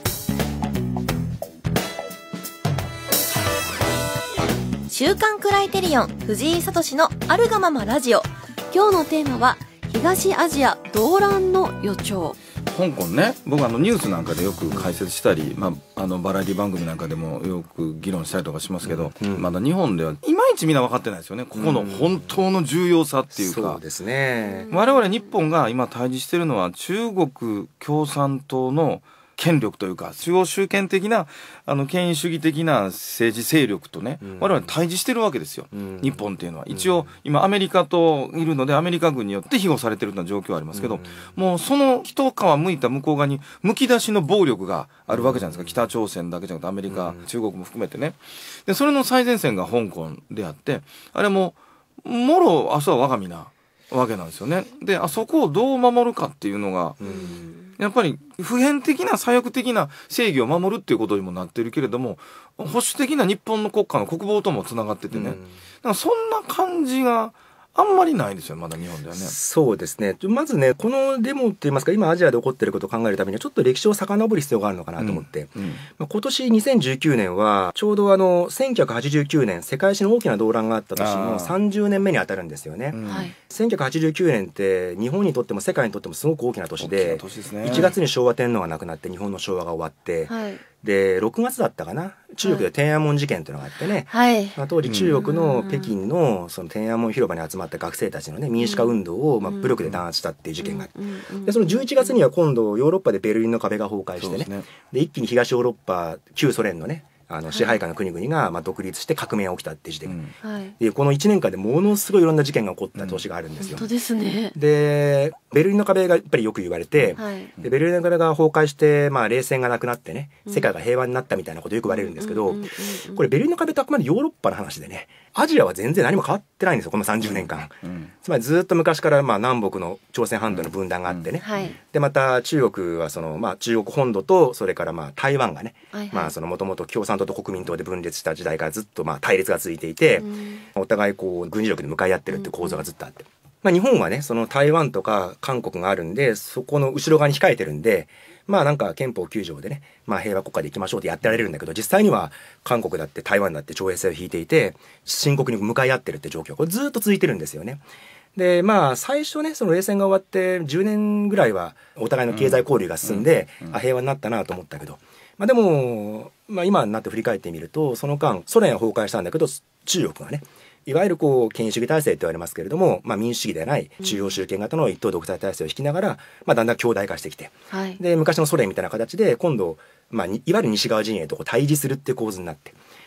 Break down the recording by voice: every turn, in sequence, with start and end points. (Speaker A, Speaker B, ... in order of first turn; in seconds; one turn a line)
Speaker A: 4.9-12.4
Speaker B: 12.7-23.8
Speaker C: 14.7-15.0
Speaker C: 18.8-19.5
Speaker C: 21.5-22.4
Speaker C: 23.3-24.7
Speaker A: 24.5-24.8
Speaker B: 24.7-57.0
Speaker C: 34.2-34.8
Speaker C: 35.7-37.1
Speaker C: 40.7-41.3
Speaker C: 45.1-45.9
Speaker C: 46.9-47.2
Speaker C: 57.0-57.5
Speaker A: 57.1-57.6
Speaker B: 57.8-69.4
Speaker C: 65.1-65.6
Speaker C: 69.1-110.2
Speaker B: 75.0-75.9
Speaker B: 81.0-81.5
Speaker B: 82.9-83.3
Speaker A: 83.1-83.3
Speaker B: 86.8-87.9
Speaker A: 90.3-90.6
Speaker A: 92.4-92.7
Speaker A: 94.1-94.6
Speaker B: 94.8-95.2
Speaker A: 95.1-95.9
Speaker A: 98.6-99.7
Speaker A: 100.6-102.2
Speaker B: 104.2-104.7
Speaker A: 107.5-107.8
Speaker B: 110.0-110.3
Speaker A: 110.4-110.8
Speaker C: 110.8-113.9
Speaker B: 113.0-113.2
Speaker A: 113.6-114.5
Speaker C: 114.5-157.8
Speaker B: 117.0-117.7
Speaker A: 117.2-117.5
Speaker A: 121.9-123.2
Speaker B: 127.2-128.1
Speaker B: 130.5-131.7
Speaker A: 131.4-131.8
Speaker A: 135.9-136.3
Speaker A: 140.2-140.7
Speaker A: 142.3-142.8
Speaker C: 158.3-182.8
Speaker B: 162.3-163.8
Speaker A: 177.7-178.0